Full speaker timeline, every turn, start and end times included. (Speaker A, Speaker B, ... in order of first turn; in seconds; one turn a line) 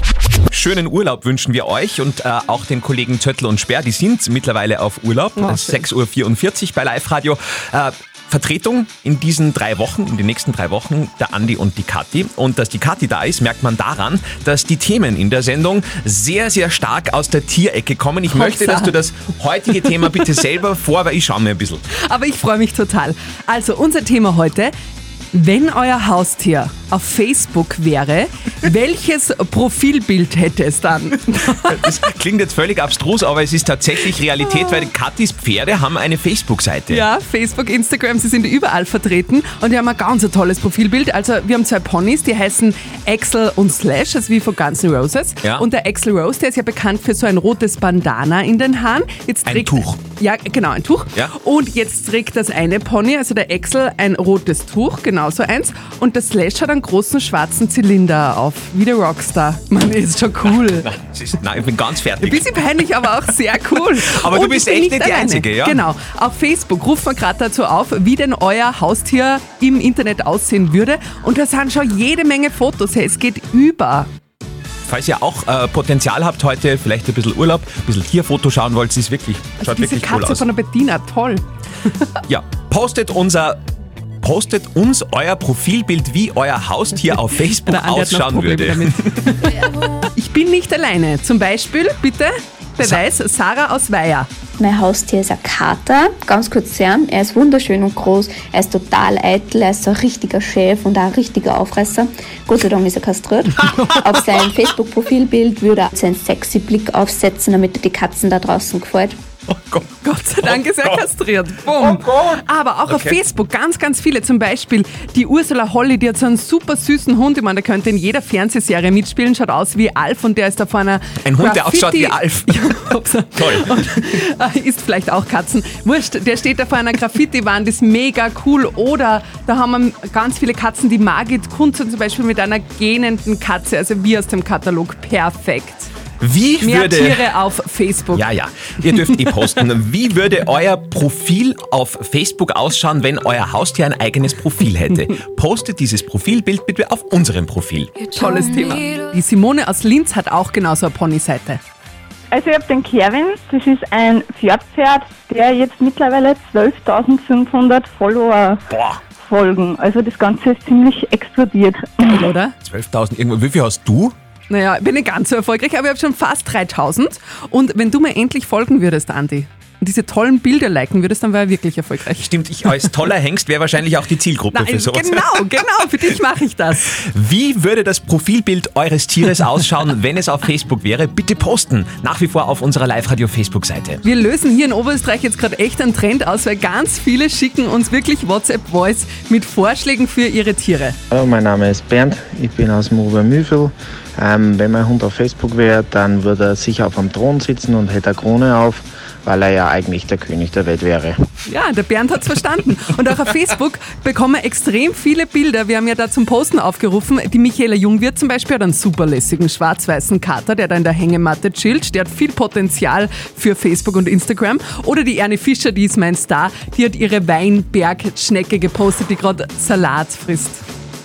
Speaker A: 0.5-21.8
Speaker B: 5.4-5.8
Speaker B: 18.3-19.0
Speaker B: 19.8-20.2
Speaker B: 22.1-24.7
Speaker B: 25.3-31.9
Speaker A: 31.4-37.0
Speaker B: 36.9-60.9
Speaker A: 49.5-49.9
Speaker A: 60.9-62.6
Speaker B: 62.2-74.1
Speaker A: 64.1-65.8
Speaker A: 74.9-80.4
Speaker B: 79.6-81.4
Speaker A: 82.3-83.6
Speaker A: 84.2-89.3
Speaker B: 87.6-89.6
Speaker B: 90.2-94.3
Speaker C: 94.6-109.2
Speaker B: 103.8-104.3
Speaker A: 109.5-109.9
Speaker B: 110.0-135.9
Speaker A: 110.4-111.0
Speaker A: 111.8-113.2
Speaker A: 121.2-122.7
Speaker A: 123.4-123.8
Speaker A: 136.2-137.2
Speaker B: 136.6-138.3
Speaker A: 138.1-148.1
Speaker B: 148.1-151.6
Speaker D: 152.3-158.6
Speaker A: 158.7-159.0
Speaker D: 159.2-162.2
Speaker B: 162.0-162.5
Speaker A: 162.6-164.2
Speaker B: 164.5-172.3
Speaker A: 172.2-175.4
Speaker B: 174.5-176.9
Speaker A: 177.0-184.0
Speaker B: 184.0-191.0
Speaker E: 191.1-201.2
Speaker B: 201.5-220.6